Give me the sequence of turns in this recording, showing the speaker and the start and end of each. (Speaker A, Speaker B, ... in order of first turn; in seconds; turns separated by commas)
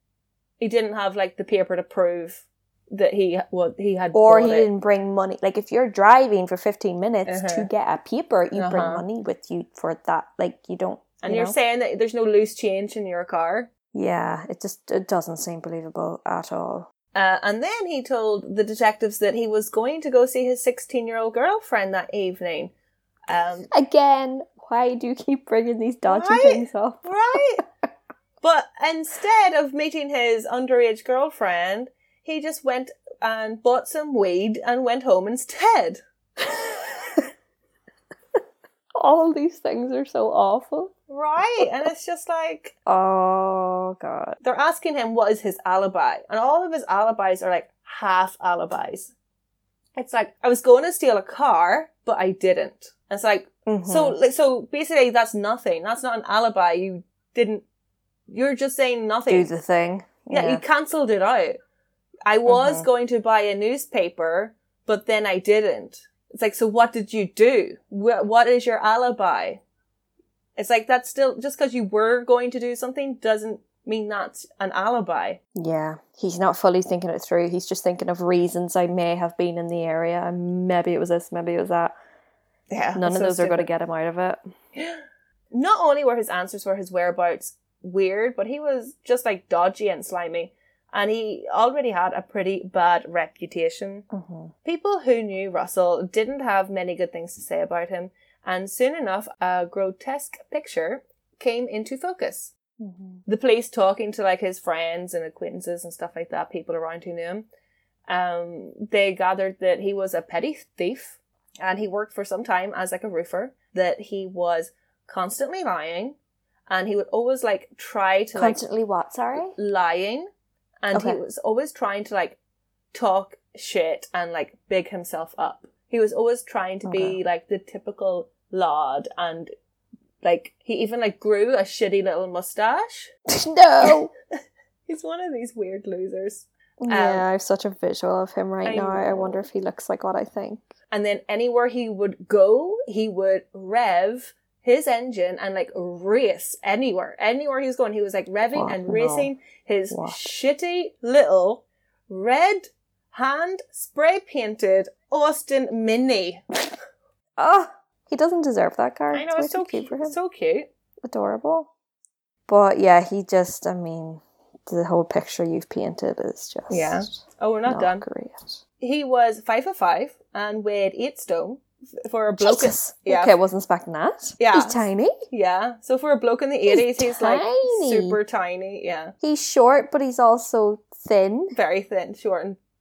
Speaker A: 0.6-4.7, Speaker B: 4.1-11.6, Speaker A: 7.3-7.7, Speaker A: 8.6-9.0, Speaker A: 11.2-13.7, Speaker B: 13.9-16.9, Speaker A: 17.1-22.7, Speaker A: 23.3-23.7, Speaker B: 23.7-27.6, Speaker A: 26.1-27.6, Speaker A: 28.4-36.0, Speaker B: 36.4-37.3, Speaker B: 39.0-40.9, Speaker A: 41.1-42.8, Speaker B: 42.9-44.4, Speaker A: 44.4-49.1, Speaker A: 50.0-57.6, Speaker B: 53.7-54.2, Speaker A: 58.3-59.5, Speaker B: 59.3-60.6, Speaker A: 60.3-61.6, Speaker A: 62.3-69.6, Speaker B: 62.5-62.9, Speaker A: 70.6-75.4, Speaker B: 75.5-81.9, Speaker A: 82.7-83.7, Speaker B: 83.0-84.4, Speaker A: 84.8-85.0, Speaker A: 85.5-94.1, Speaker B: 94.1-94.5, Speaker A: 94.7-102.5, Speaker B: 102.8-103.2, Speaker A: 103.3-107.5, Speaker A: 108.1-116.2, Speaker A: 116.7-118.6, Speaker B: 118.3-119.5, Speaker A: 119.5-120.3, Speaker A: 120.8-122.4, Speaker B: 120.9-121.2, Speaker A: 122.9-129.5, Speaker B: 126.8-127.2, Speaker A: 130.2-133.1, Speaker B: 133.3-134.1, Speaker A: 134.9-137.2, Speaker B: 136.8-140.7, Speaker A: 138.7-139.4, Speaker A: 140.9-156.4, Speaker B: 148.5-149.3, Speaker B: 149.9-150.3, Speaker B: 157.4-160.2, Speaker A: 159.1-160.7, Speaker B: 161.0-161.7, Speaker B: 162.5-168.6, Speaker A: 166.7-168.1, Speaker A: 168.8-173.3, Speaker B: 172.4-175.2, Speaker A: 174.4-179.1, Speaker B: 176.7-178.2, Speaker B: 179.2-181.6, Speaker A: 181.5-182.6